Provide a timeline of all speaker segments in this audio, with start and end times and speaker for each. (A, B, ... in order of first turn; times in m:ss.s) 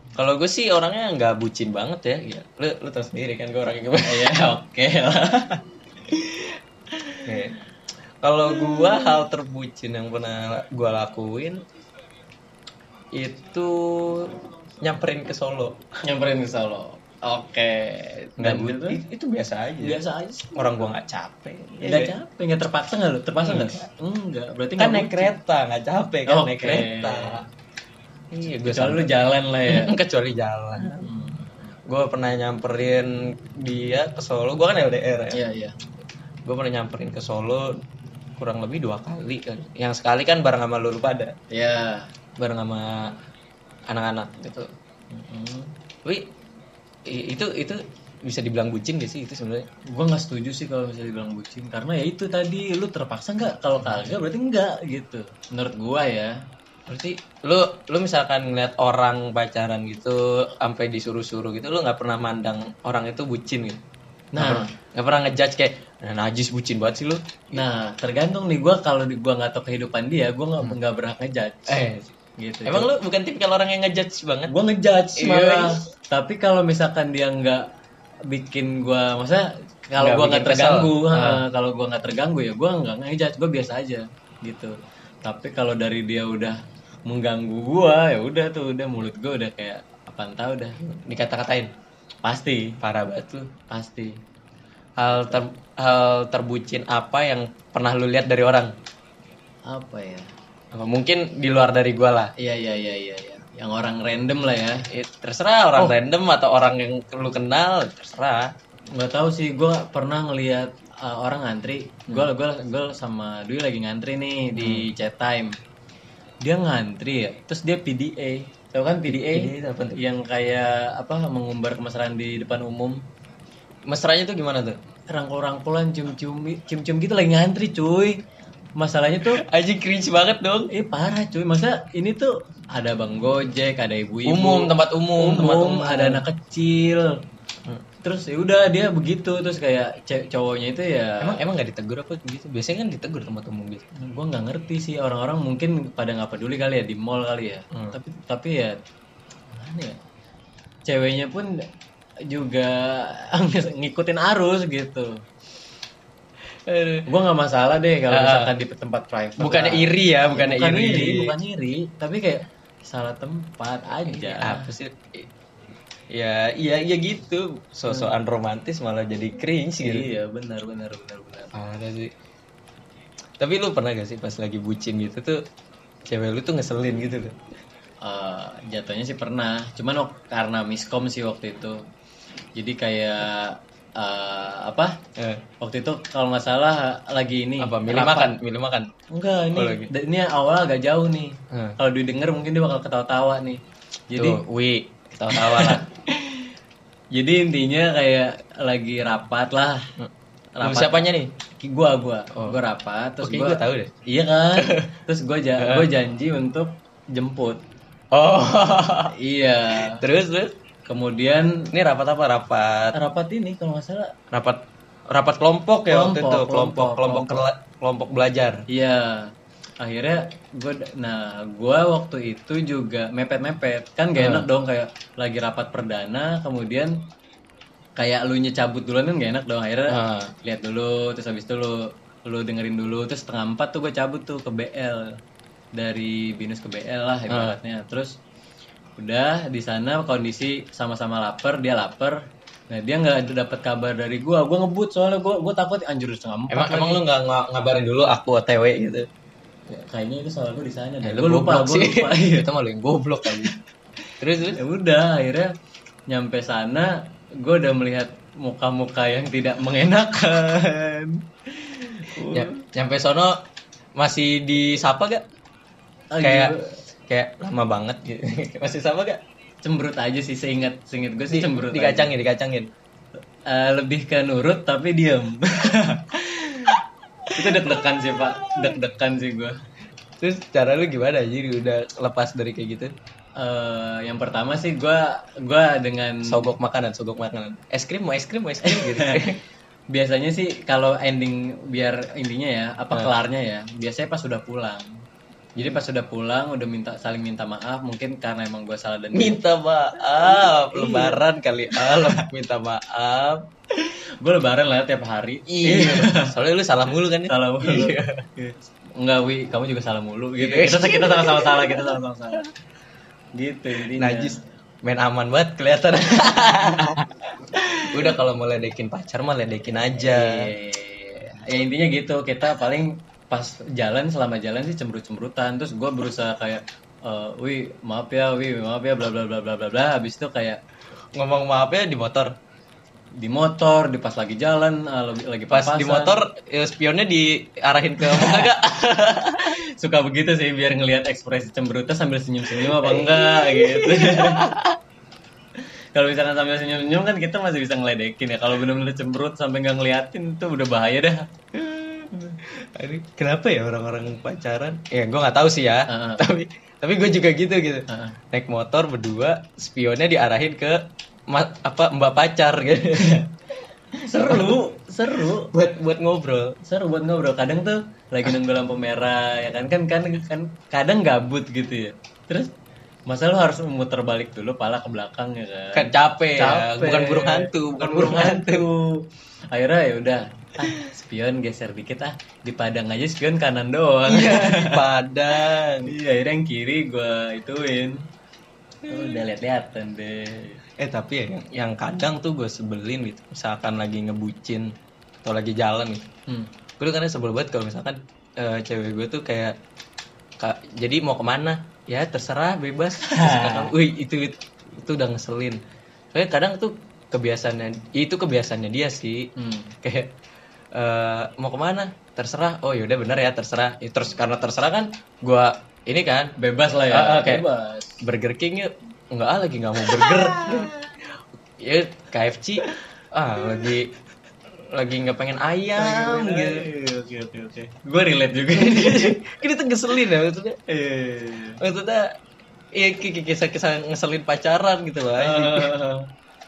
0:00.2-0:04.4 A
0:04.0-0:05.6 B
0:07.2-0:07.6 A
0:08.2-0:11.6 A
0:13.1-0:15.8 A
0:16.0-0:19.0 B
0:18.4-0:20.0 A
0:19.8-0:20.9 B
0:20.5-0:22.1 A
0:21.8-0:25.3 B
0:23.4-0:23.8 A
0:24.8-0:27.4 A
0:26.2-0:27.4 B
0:28.3-0:29.1 A
0:28.6-0:30.0 B
0:29.6-0:31.1 A
0:30.8-0:31.5 B
0:31.8-0:35.4 A
0:35.3-0:35.7 B
0:36.4-0:37.8 A
0:38.4-0:41.3 A
0:41.5-0:42.1 B
0:42.4-0:43.1 A
0:43.9-0:44.7 A
0:45.1-0:45.7 B
0:47.0-0:49.7 A
0:49.9-0:56.4 B
0:56.9-1:03.8 A
1:04.3-1:04.7 B
1:04.4-1:07.6 A
1:07.5-1:11.8 B
1:11.7-1:12.1 A
1:12.4-1:12.9 B
1:12.6-1:14.5 A
1:14.5-1:17.6 B
1:15.2-1:15.8 A
1:18.3-1:30.8 B
1:20.0-1:21.4 A
1:30.8-1:31.7 A
1:32.2-1:32.8 B
1:32.8-1:33.5 A
1:33.7-1:34.2 B
1:35.0-1:38.7 A
1:35.1-1:35.4 B
1:39.6-1:40.3 B
1:40.7-1:42.3 A
1:42.4-1:44.8 B
1:44.9-1:48.5 A
1:48.9-1:55.5 B
1:54.6-1:54.9 A
1:56.4-2:03.0 B
1:59.1-2:00.0 A
2:03.9-2:04.8 A
2:05.1-2:08.2 B
2:08.8-2:09.4 B
2:09.2-2:10.7 A
2:10.7-2:17.2 B
2:14.2-2:16.2 A
2:18.0-2:21.4 B
2:21.2-2:23.8 A
2:24.0-2:28.8 B
2:29.5-2:30.0 B
2:30.9-2:31.6 B
2:32.3-2:35.2 B
2:36.6-2:37.1 A
2:37.1-2:44.7 B
2:38.1-2:38.5 A
2:39.4-2:41.3 A
2:44.0-2:45.3 A
2:46.1-2:50.1 A
2:49.8-2:51.5 B
2:51.5-2:52.1 A
2:53.4-2:55.4 A
2:56.1-2:57.4 A
2:58.0-3:01.8 B
3:02.6-3:05.0 B
3:05.2-3:05.4 A
3:05.6-3:08.3 B
3:07.6-3:08.9 A
3:09.1-3:14.4 B
3:09.5-3:09.9 A
3:11.5-3:11.8 A
3:14.2-3:15.9 A
3:15.3-3:15.8 B
3:17.1-3:19.9 B
3:20.6-3:21.1 B
3:20.6-3:21.3 A
3:21.6-3:27.6 B
3:23.2-3:23.9 A
3:24.6-3:24.9 A
3:25.6-3:25.9 A
3:28.1-3:29.1 A
3:29.1-3:30.0 B
3:29.7-3:30.5 A
3:30.9-3:31.7 B
3:31.7-3:33.0 A
3:32.9-3:34.1 B
3:34.3-3:38.6 A
3:35.9-3:37.4 B
3:38.7-3:47.0 B
3:44.2-3:44.5 A
3:48.0-3:55.2 B
3:49.9-3:50.3 A
3:55.7-3:58.1 B
3:57.3-3:57.5 A
3:59.0-4:07.0 B
4:06.5-4:09.1 A
4:09.7-4:12.5 B
4:11.0-4:13.6 A
4:14.2-4:14.6 A
4:14.5-4:15.5 B
4:16.1-4:22.6 B
4:22.2-4:23.4 A
4:24.0-4:25.2 A
4:26.1-4:26.8 B
4:26.2-4:26.5 A
4:27.1-4:29.2 A
4:29.6-4:32.1 B
4:31.3-4:32.7 A
4:33.5-4:36.8 B
4:37.3-4:39.6 B
4:40.2-4:42.9 A
4:43.4-4:46.5 B
4:46.2-4:49.4 A
4:48.6-4:49.3 B
4:49.9-4:54.9 B
4:55.6-4:59.4 B
4:59.1-5:03.4 A
5:00.1-5:01.2 B
5:01.7-5:02.2 B
5:03.8-5:06.3 B
5:05.5-5:08.2 A
5:07.2-5:12.4 B
5:10.4-5:12.0 A
5:13.4-5:14.4 B
5:13.9-5:20.5 A
5:20.0-5:30.6 B
5:31.1-5:32.3 A
5:33.2-5:36.2 B
5:35.5-5:39.5 A
5:38.0-5:38.5 B
5:39.4-5:44.5 B
5:42.5-5:44.8 A
5:45.9-5:51.2 B
5:51.5-6:03.2 A
5:55.9-5:56.2 B
5:57.9-5:58.2 B
6:03.0-6:03.2 B
6:04.0-6:05.5 B
6:04.1-6:04.6 A
6:05.3-6:06.6 A
6:06.6-6:12.5 B
6:13.1-6:24.8 B
6:15.7-6:18.7 A
6:24.1-6:25.9 A
6:25.8-6:28.0 B
6:28.8-6:30.6 B
6:28.9-6:29.2 A
6:30.8-6:36.0 A
6:36.8-6:39.6 A
6:40.4-6:45.6 A
6:43.0-6:43.7 B
6:46.1-6:49.3 A
6:49.4-6:49.7 B
6:49.8-6:50.1 A
6:50.7-6:56.3 A
6:56.4-6:58.0 B
6:56.9-6:57.4 A
6:58.0-7:00.7 A
6:59.9-7:00.8 B
7:01.6-7:03.9 A
7:04.5-7:06.7 A
7:05.8-7:09.2 B
7:08.5-7:10.6 A
7:10.7-7:11.6 B
7:11.6-7:12.2 A
7:12.7-7:15.7 A
7:15.2-7:16.0 B